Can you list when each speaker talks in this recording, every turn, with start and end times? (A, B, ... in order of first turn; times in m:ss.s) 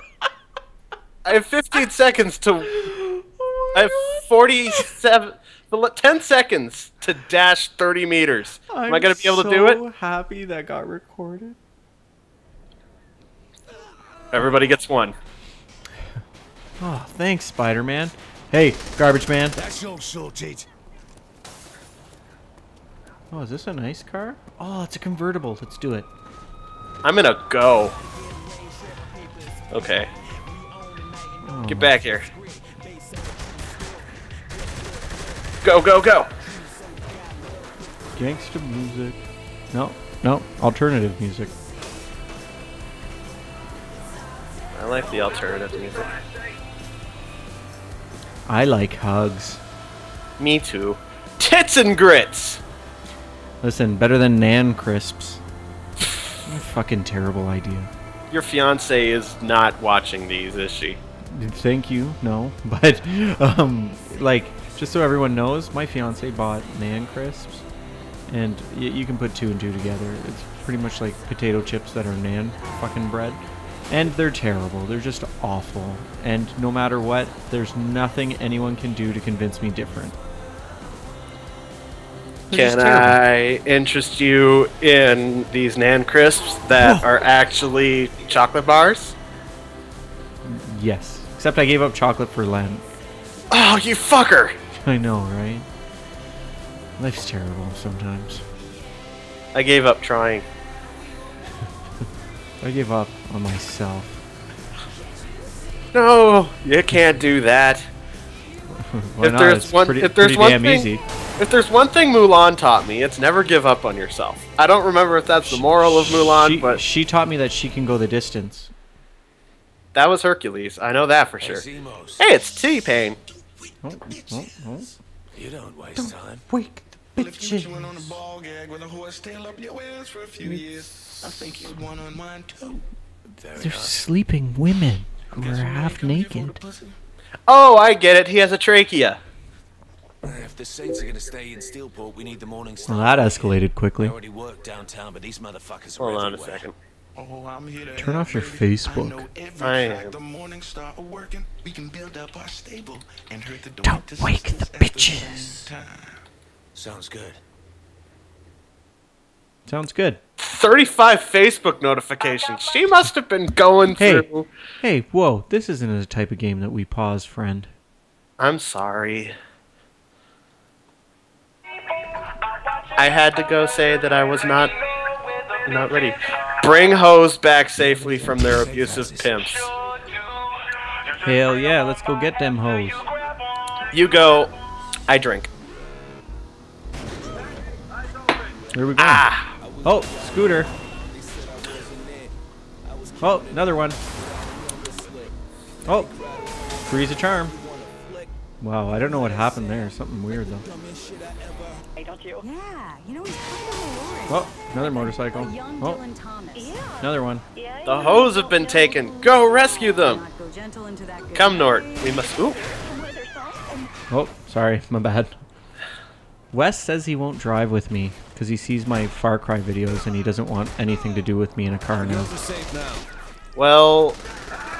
0:01.2-0:02.8 A
0:02.7-0:04.9 B
0:03.7-0:09.8 A
0:08.7-0:11.6 B
0:14.3-0:15.1 A
0:16.8-0:19.6 B
0:19.6-0:20.7 C
0:23.3-0:26.1 B
0:27.0-0:28.0 A
0:29.7-0:30.1 A
0:31.4-0:31.9 B
0:31.7-0:32.3 A
0:35.6-0:36.3 A
0:38.2-0:41.5 B
0:44.7-0:46.1 A
0:48.5-0:49.6 B
0:50.4-0:52.6 A
0:53.6-0:55.4 B
0:56.4-0:57.9 B
0:58.3-1:01.0 A
1:01.3-1:07.6 B
1:08.3-1:20.2 B
1:22.5-1:23.2 B
1:22.5-1:29.2 A
1:26.8-1:27.0 B
1:30.4-1:32.8 B
1:33.5-1:34.5 A
1:34.8-1:35.6 B
1:37.0-1:38.4 B
1:39.5-1:40.4 A
1:42.6-1:44.2 B
1:45.9-1:47.9 A
1:48.7-1:51.0 B
1:49.2-1:56.8 A
1:55.5-1:58.7 B
1:59.9-2:01.6 A
2:01.4-2:02.2 C
2:02.2-2:03.2 A
2:03.8-2:05.0 B
2:05.4-2:06.4 C
2:06.0-2:08.2 B
2:07.5-2:10.6 D
2:10.4-2:11.8 B
2:11.6-2:12.8 D
2:13.4-2:13.9 C
2:13.6-2:16.6 B
2:15.5-2:16.2 D
2:17.5-2:19.2 A
2:20.2-2:26.6 C
2:22.9-2:24.2 B
2:26.0-2:26.7 A
2:27.2-2:28.4 D
2:28.0-2:29.3 B
2:29.0-2:35.4 D
2:29.6-2:30.2 A
2:33.8-2:35.7 B
2:36.7-2:37.4 C
2:39.7-2:40.2 B
2:40.4-2:44.5 A
2:43.9-2:44.2 B
2:44.8-2:47.7 B
2:48.4-2:49.3 A
2:53.0-2:54.7 A
2:55.6-2:59.7 A
2:58.0-2:59.3 C
3:01.2-3:03.0 B
3:03.9-3:04.5 A
3:05.1-3:05.5 A
3:08.7-3:09.3 B
3:09.0-3:09.6 A
3:09.8-3:10.3 C
3:09.8-3:10.7 B
3:11.1-3:12.3 C
3:12.9-3:13.6 C
3:13.2-3:14.0 B
3:14.6-3:15.3 C
3:15.8-3:16.1 B
3:16.8-3:17.6 B
3:17.7-3:18.1 C
3:18.6-3:20.6 B
3:20.8-3:21.8 C
3:22.0-3:24.2 E
3:24.3-3:26.0 B
3:25.7-3:26.8 E
3:27.0-3:27.4 B
3:27.8-3:30.2 A
3:30.3-3:31.3 E
3:31.3-3:32.6 A
3:32.9-3:33.7 E
3:34.1-3:35.3 B
3:36.5-3:42.3 B
3:42.0-3:43.1 C
3:43.6-3:44.2 A